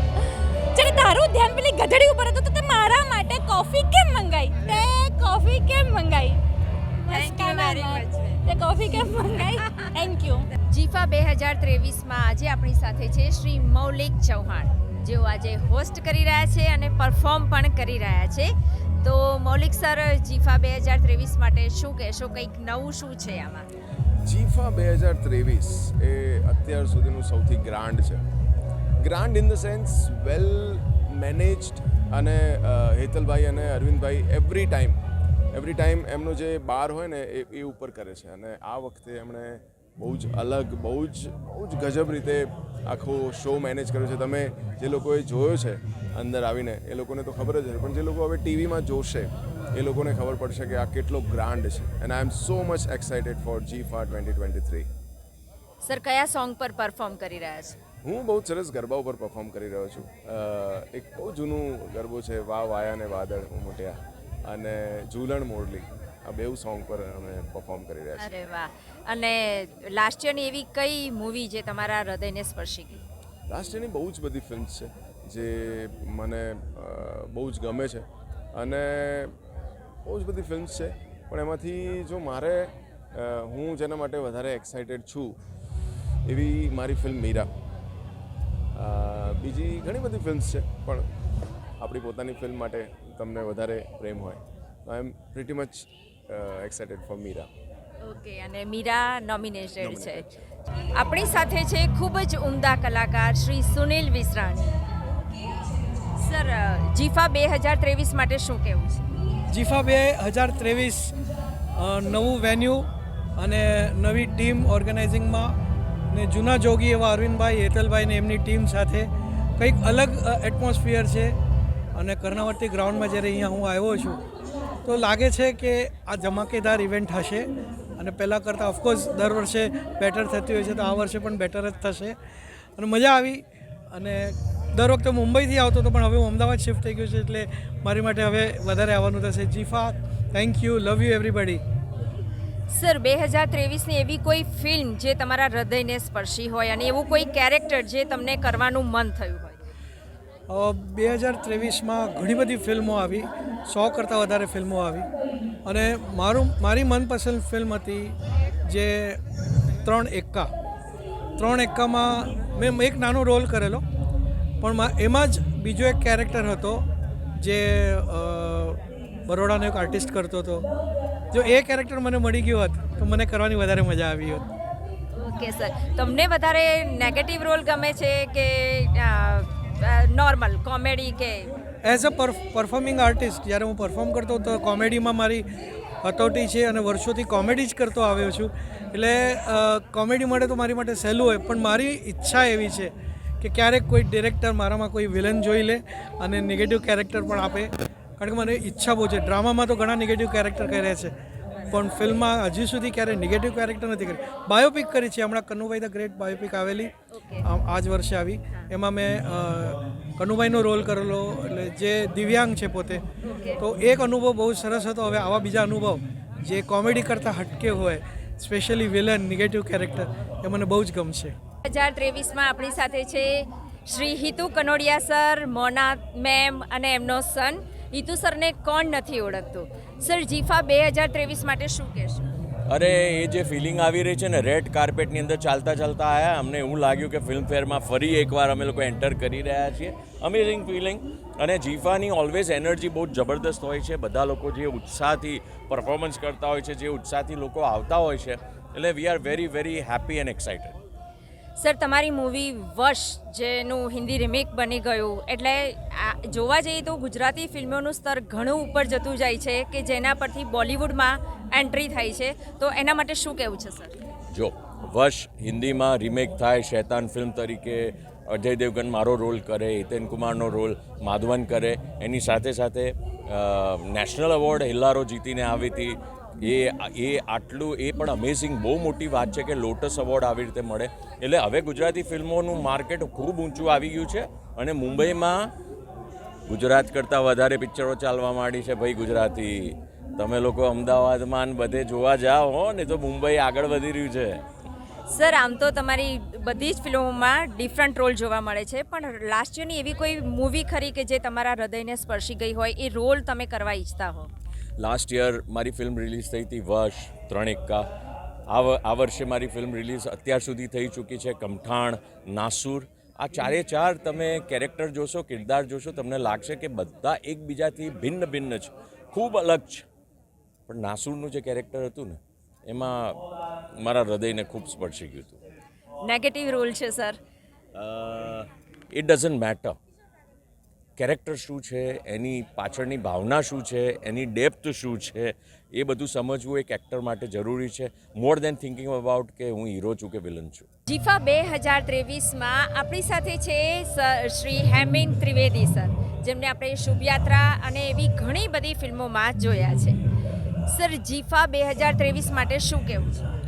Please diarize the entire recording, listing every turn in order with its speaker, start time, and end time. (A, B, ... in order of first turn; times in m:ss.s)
0:00.8-0:06.4 A
0:07.1-0:10.5 A
0:07.1-0:08.5 B
0:10.7-0:18.5 B
0:19.0-0:23.7 B
0:24.2-0:28.2 C
0:29.0-0:35.0 C
0:35.5-0:54.9 C
0:55.8-0:57.8 B
0:58.0-1:08.3 C
1:08.2-1:13.0 B
1:13.5-1:19.3 C
1:20.1-1:25.4 C
1:26.2-1:27.5 C
1:28.8-1:31.0 C
1:31.8-1:37.5 C
1:38.0-1:40.3 B
1:39.8-1:40.4 C
1:40.9-1:44.7 B
1:46.2-1:49.0 B
1:49.5-1:51.1 D
1:51.8-1:55.5 D
1:56.1-2:01.4 D
2:02.0-2:04.2 D
2:04.9-2:12.2 D
2:12.8-2:21.6 D
2:22.7-2:29.6 B
2:30.5-2:35.1 D
2:35.6-2:39.2 D
2:39.8-2:40.5 D
2:41.4-2:43.8 D
2:44.6-2:46.8 D
2:47.4-2:50.7 D
2:51.3-2:54.5 D
2:55.2-3:01.5 B
3:01.8-3:05.4 D
3:06.0-3:21.1 D
3:21.7-3:26.9 D
3:27.1-3:27.5 B
3:27.4-3:33.0 D
3:33.2-3:33.6 B
3:33.6-3:41.4 D
3:41.6-3:52.2 B
3:52.7-4:10.8 E
4:11.6-4:23.9 B
4:24.3-4:45.3 E
4:46.5-4:54.4 E
4:55.1-5:04.3 B
5:04.8-5:07.9 E
5:08.5-5:19.8 E
5:20.7-5:23.2 E
5:23.8-5:25.4 E
5:26.0-5:27.2 B
5:27.8-5:29.8 E
5:31.0-5:40.7 E
5:40.9-5:50.0 B
5:50.7-5:53.3 B